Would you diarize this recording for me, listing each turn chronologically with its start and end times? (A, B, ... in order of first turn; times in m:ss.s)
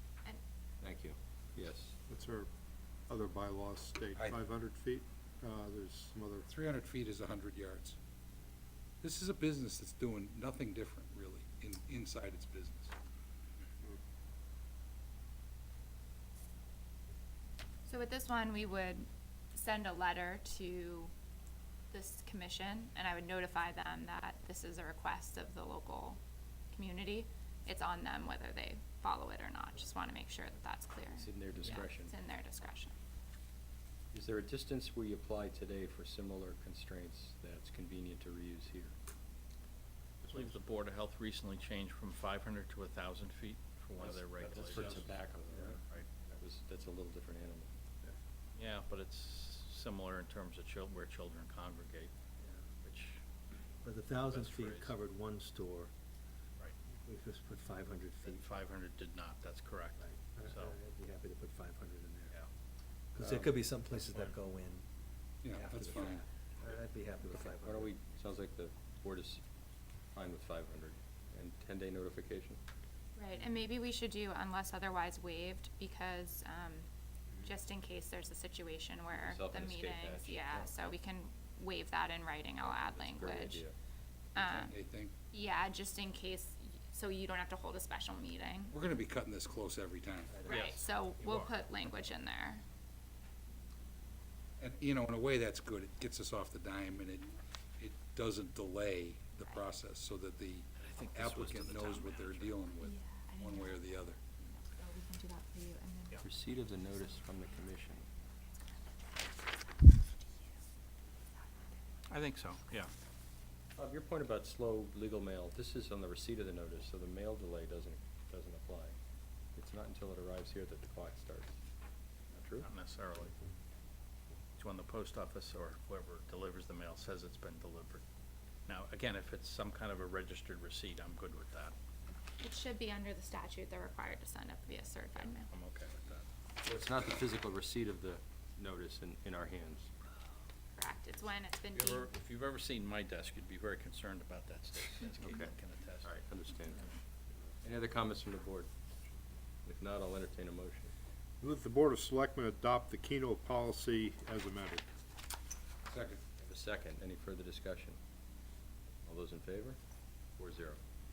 0:00.8-0:02.0 A
0:02.1-0:02.5 B
0:03.1-0:06.5 B
0:04.2-0:04.4 C
0:06.5-0:08.0 C
0:09.0-0:12.9 C
0:17.9-0:21.1 D
0:21.9-0:26.2 D
0:26.7-0:32.9 D
0:31.1-0:32.1 A
0:34.1-0:39.0 A
0:40.3-0:45.1 E
0:44.0-0:45.8 A
0:45.5-0:45.8 F
0:46.3-0:47.7 A
0:48.6-0:52.1 E
0:52.8-0:53.2 E
0:53.8-0:55.9 F
0:54.3-0:55.0 E
0:57.0-0:58.4 F
0:58.3-1:00.8 E
1:00.0-1:02.3 F
1:03.2-1:04.8 F
1:03.9-1:04.3 E
1:05.4-1:06.2 C
1:05.5-1:07.9 F
1:07.6-1:09.4 A
1:10.1-1:12.6 A
1:13.2-1:16.9 D
1:17.4-1:23.6 D
1:19.1-1:21.0 A
1:22.7-1:23.7 A
1:24.4-1:24.8 D
1:24.4-1:25.1 C
1:25.3-1:28.8 D
1:28.7-1:30.5 C
1:30.3-1:30.7 F
1:30.5-1:32.6 D
1:30.5-1:31.5 E
1:34.6-1:44.2 C
1:39.4-1:39.7 D
1:40.8-1:42.6 E
1:42.8-1:43.9 D
1:44.4-1:46.2 D
1:46.2-1:48.1 A
1:52.1-1:52.9 E
1:53.8-1:59.0 A
1:59.6-2:01.6 A
2:02.3-2:02.7 A
2:02.6-2:03.3 E
2:04.6-2:08.0 E
2:08.7-2:11.8 E
2:12.4-2:15.5 D
2:15.1-2:16.3 E
2:16.6-2:19.9 A
2:20.8-2:22.1 D
2:21.7-2:26.2 E
2:25.2-2:26.9 A
2:27.6-2:28.7 A
2:29.6-2:30.9 A
2:31.4-2:34.8 B
2:35.9-2:36.2 C
2:36.4-2:38.0 A
2:39.1-2:39.8 A
2:40.4-2:40.8 A